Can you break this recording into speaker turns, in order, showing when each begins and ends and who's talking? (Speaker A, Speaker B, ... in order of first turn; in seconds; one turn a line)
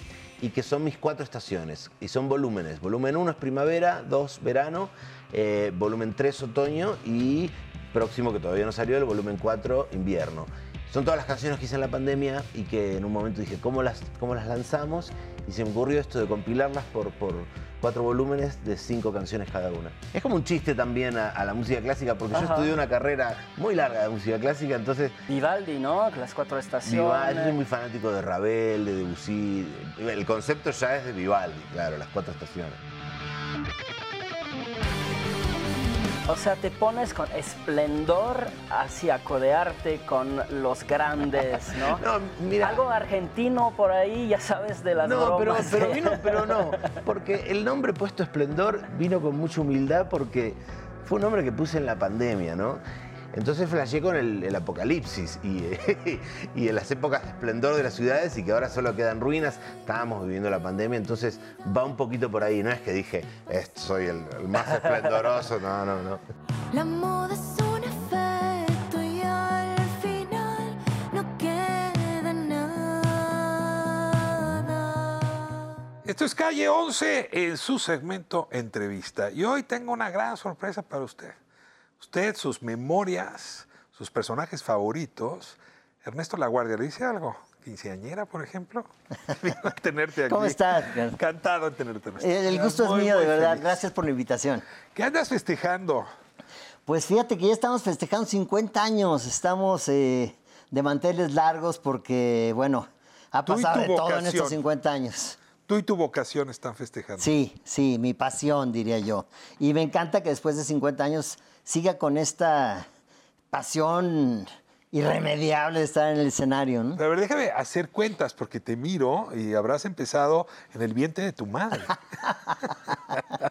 Speaker A: 0.4-25.2
Speaker B: 22.3-22.8
Speaker B: 25.3-27.6
Speaker A: 26.8-32.8
Speaker B: 36.2-42.0
Speaker A: 41.8-42.9
Speaker B: 42.6-47.0
Speaker A: 45.0-52.8
Speaker A: 53.3-66.2
Speaker C: 66.7-73.9
Speaker C: 74.4-75.2
Speaker D: 76.0-81.4
Speaker D: 82.0-93.8
Speaker E: 90.3-91.2
Speaker E: 92.2-94.7
Speaker D: 95.0-96.1
Speaker E: 96.9-105.4
Speaker D: 103.5-104.6
Speaker D: 105.6-107.3
Speaker E: 107.2-112.9
Speaker E: 113.5-117.0
Speaker D: 117.0-122.0